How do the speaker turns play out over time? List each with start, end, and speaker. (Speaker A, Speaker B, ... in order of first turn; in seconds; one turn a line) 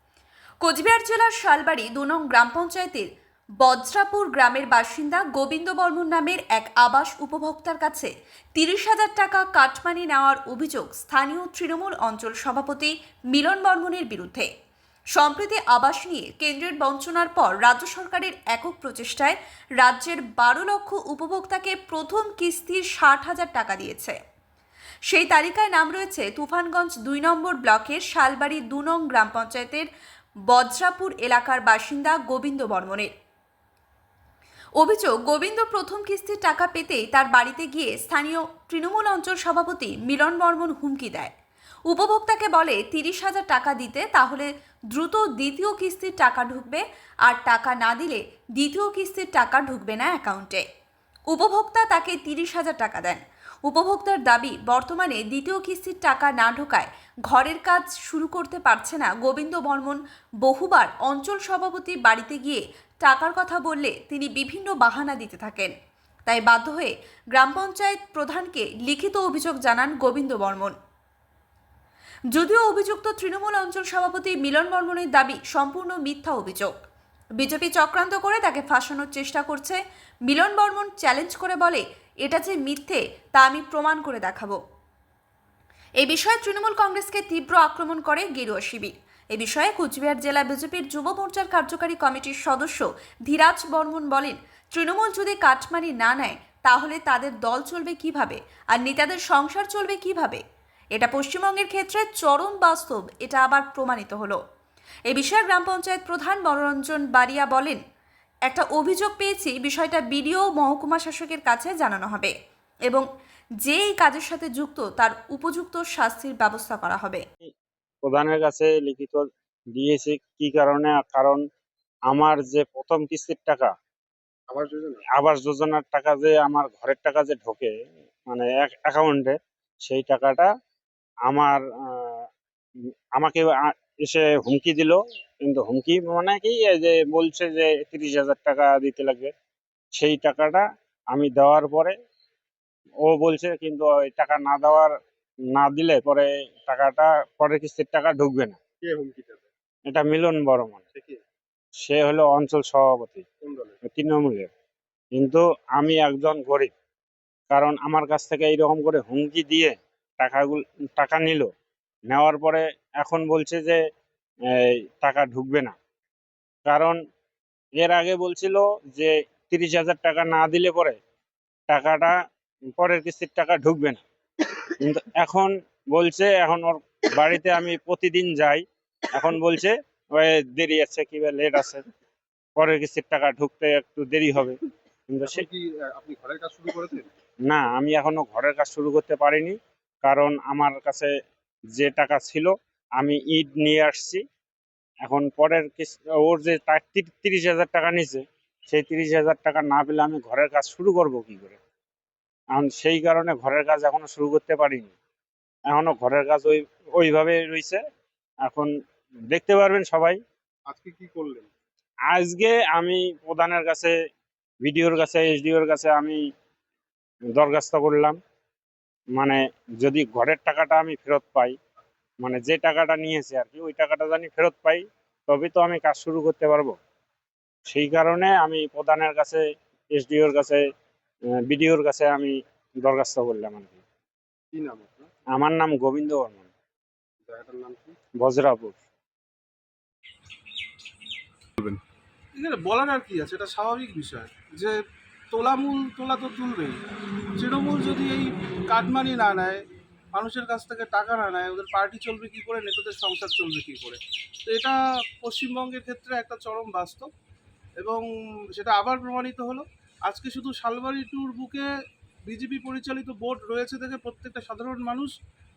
Speaker A: 0.6-3.1
Speaker A: 3.6-14.5
Speaker A: 15.2-24.2
Speaker A: 25.1-29.9
Speaker A: 30.5-33.1
Speaker A: 34.8-41.3
Speaker A: 41.9-50.6
Speaker A: 51.3-65.7
Speaker A: 66.3-70.8
Speaker A: 72.3-76.7
Speaker A: 77.4-84.6
Speaker A: 86.0-100.4
Speaker A: 100.9-104.4
Speaker A: 105.1-107.8
Speaker A: 108.5-112.3
Speaker A: 113.6-117.2
Speaker B: 118.0-119.2
Speaker B: 119.8-121.4
Speaker B: 122.1-123.7
Speaker C: 124.5-125.0
Speaker B: 125.2-127.7
Speaker B: 128.3-130.5
Speaker B: 131.3-132.2
Speaker B: 133.2-139.3
Speaker B: 139.9-141.9
Speaker B: 143.0-144.9
Speaker B: 145.5-148.6
Speaker C: 148.8-149.5
Speaker B: 149.9-150.8
Speaker C: 150.9-151.2
Speaker B: 151.8-153.2
Speaker C: 153.4-153.7
Speaker B: 153.9-154.5
Speaker B: 155.2-156.7
Speaker B: 157.5-161.4
Speaker B: 162.1-163.8
Speaker B: 164.6-165.7
Speaker B: 166.7-167.0
Speaker B: 167.8-171.0
Speaker B: 171.7-172.1
Speaker B: 172.8-174.0
Speaker B: 174.7-181.8
Speaker B: 182.6-184.6
Speaker B: 185.1-185.4
Speaker C: 185.2-187.1
Speaker B: 187.5-191.1
Speaker B: 191.7-194.2
Speaker B: 195.0-201.6
Speaker B: 202.6-204.9
Speaker B: 205.7-207.8
Speaker B: 209.3-210.2
Speaker C: 210.7-211.5
Speaker B: 212.1-213.9
Speaker B: 214.6-216.2
Speaker B: 217.3-218.2
Speaker B: 219.2-221.6
Speaker B: 222.2-226.7
Speaker B: 227.7-229.4
Speaker B: 229.9-230.6
Speaker B: 231.5-233.8
Speaker C: 234.5-235.1
Speaker B: 235.3-236.5
Speaker C: 237.2-237.9
Speaker B: 238.2-238.8
Speaker D: 242.3-244.8
Speaker D: 245.3-246.8
Speaker D: 247.4-249.6
Speaker D: 250.1-257.1
Speaker D: 257.8-261.7
Speaker D: 262.3-265.1